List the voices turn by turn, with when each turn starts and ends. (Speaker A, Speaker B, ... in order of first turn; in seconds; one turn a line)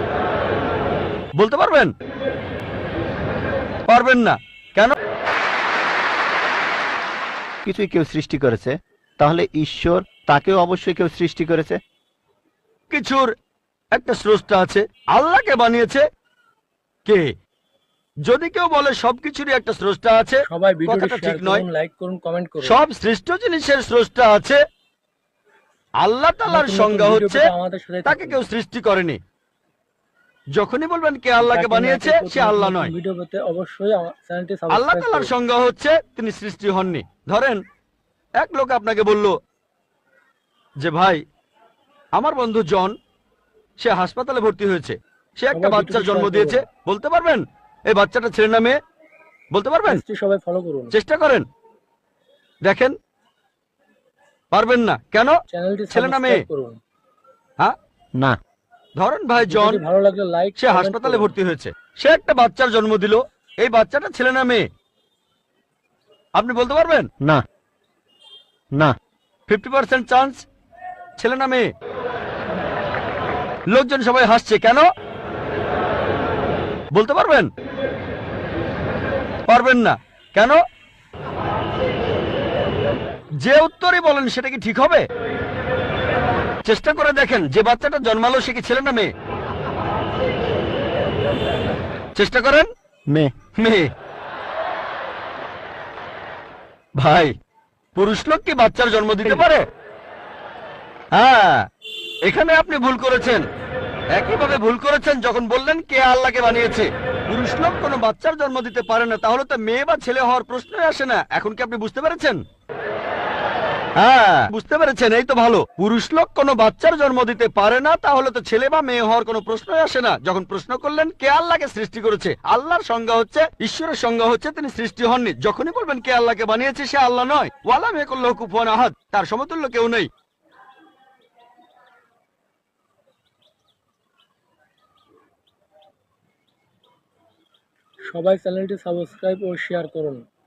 Speaker A: 1.4-1.9
Speaker A: 3.9-4.9
Speaker B: 7.6-11.8
Speaker A: 12.9-13.3
Speaker A: 13.9-16.0
Speaker A: 18.2-21.6
Speaker C: 20.5-22.8
Speaker A: 22.6-24.6
Speaker A: 26.0-27.5
Speaker C: 26.5-28.4
Speaker A: 28.0-29.2
Speaker A: 30.6-32.9
Speaker C: 31.4-35.3
Speaker A: 34.7-37.6
Speaker A: 38.4-39.3
Speaker A: 40.8-41.2
Speaker A: 42.1-42.9
Speaker A: 43.8-48.8
Speaker C: 45.5-46.6
Speaker A: 49.5-50.0
Speaker C: 49.9-50.9
Speaker A: 50.9-51.5
Speaker A: 52.6-52.9
Speaker A: 54.5-55.3
Speaker C: 55.5-56.8
Speaker A: 55.9-56.4
Speaker A: 59.0-59.8
Speaker C: 59.4-61.3
Speaker A: 60.6-64.7
Speaker A: 66.3-67.1
Speaker A: 69.5-70.4
Speaker A: 71.2-71.7
Speaker A: 73.7-74.9
Speaker A: 76.9-77.5
Speaker A: 79.5-80.6
Speaker A: 83.4-85.0
Speaker A: 86.6-89.1
Speaker A: 92.1-92.7
Speaker B: 93.1-93.3
Speaker A: 93.5-93.9
Speaker A: 97.0-97.3
Speaker A: 98.0-99.6
Speaker A: 101.1-101.7
Speaker A: 102.2-103.4
Speaker A: 104.1-112.4
Speaker A: 114.0-130.1
Speaker C: 138.1-140.2